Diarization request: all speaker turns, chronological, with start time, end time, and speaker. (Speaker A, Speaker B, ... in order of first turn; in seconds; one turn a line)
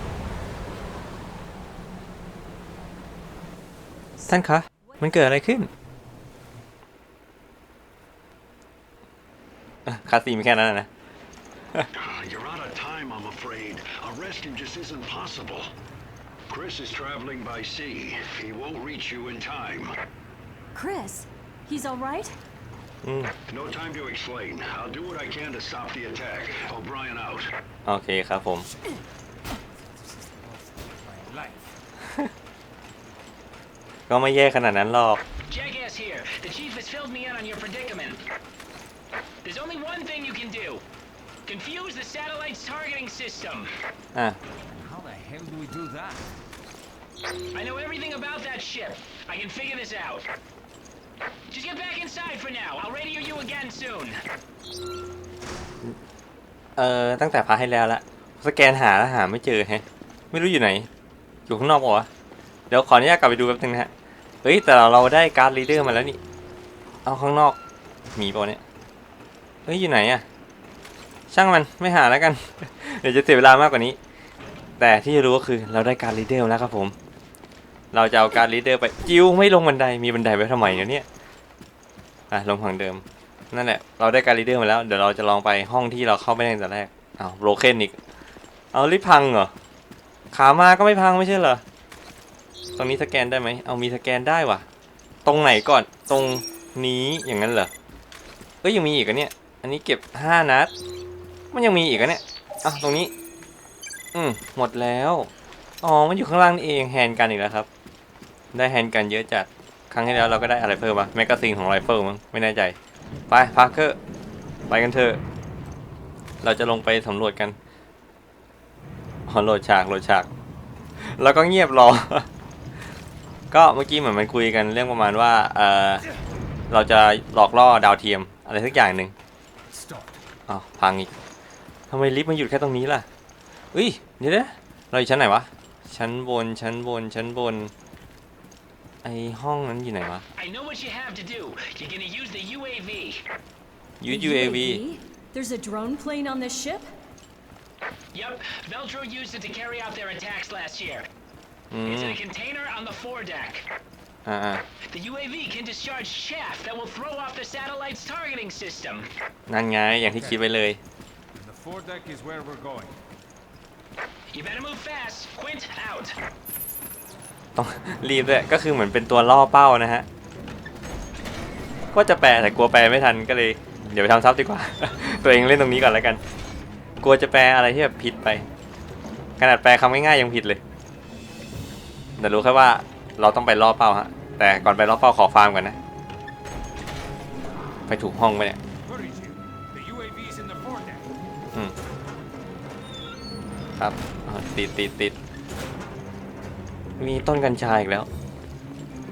Speaker A: 4.3-5.7
Speaker A: 9.9-10.9
Speaker B: 11.9-15.7
Speaker B: 16.5-19.9
Speaker C: 20.7-22.4
Speaker A: 23.0-23.3
Speaker B: 23.5-27.5
Speaker A: 27.9-28.7
Speaker D: 30.8-31.6
Speaker A: 34.1-35.2
Speaker E: 35.5-38.2
Speaker E: 39.4-40.8
Speaker E: 41.5-43.7
Speaker D: 44.8-46.2
Speaker E: 47.5-50.2
Speaker E: 51.5-54.2
Speaker A: 56.8-60.9
Speaker A: 61.5-62.1
Speaker A: 62.7-63.9
Speaker A: 64.4-66.2
Speaker A: 67.0-67.6
Speaker A: 68.2-68.6
Speaker A: 69.7-70.2
Speaker A: 71.3-74.0
Speaker A: 74.8-77.0
Speaker A: 77.9-81.1
Speaker A: 82.3-88.0
Speaker A: 88.7-89.5
Speaker A: 90.3-91.6
Speaker A: 92.8-94.6
Speaker A: 95.2-97.7
Speaker A: 98.6-100.7
Speaker A: 101.5-103.1
Speaker A: 104.1-105.3
Speaker A: 105.8-107.7
Speaker A: 108.5-112.8
Speaker A: 113.3-114.0
Speaker A: 114.7-115.2
Speaker A: 116.4-117.6
Speaker A: 119.3-120.3
Speaker A: 121.0-122.3
Speaker A: 123.5-126.0
Speaker A: 126.7-129.1
Speaker D: 129.7-130.1
Speaker A: 130.5-131.1
Speaker A: 131.9-133.1
Speaker A: 133.7-137.7
Speaker A: 139.0-140.2
Speaker E: 140.4-143.2
Speaker A: 144.0-144.8
Speaker C: 144.1-146.9
Speaker E: 148.1-151.1
Speaker A: 151.7-152.2
Speaker E: 151.9-153.7
Speaker A: 154.3-154.6
Speaker E: 154.9-159.1
Speaker A: 159.5-160.8
Speaker D: 161.4-162.9
Speaker E: 164.3-166.2
Speaker A: 167.6-170.1
Speaker A: 171.9-176.2
Speaker A: 177.0-178.5
Speaker A: 179.4-180.6
Speaker A: 182.2-185.8
Speaker A: 187.9-188.6
Speaker D: 188.9-191.1
Speaker A: 193.8-195.2
Speaker A: 197.0-198.1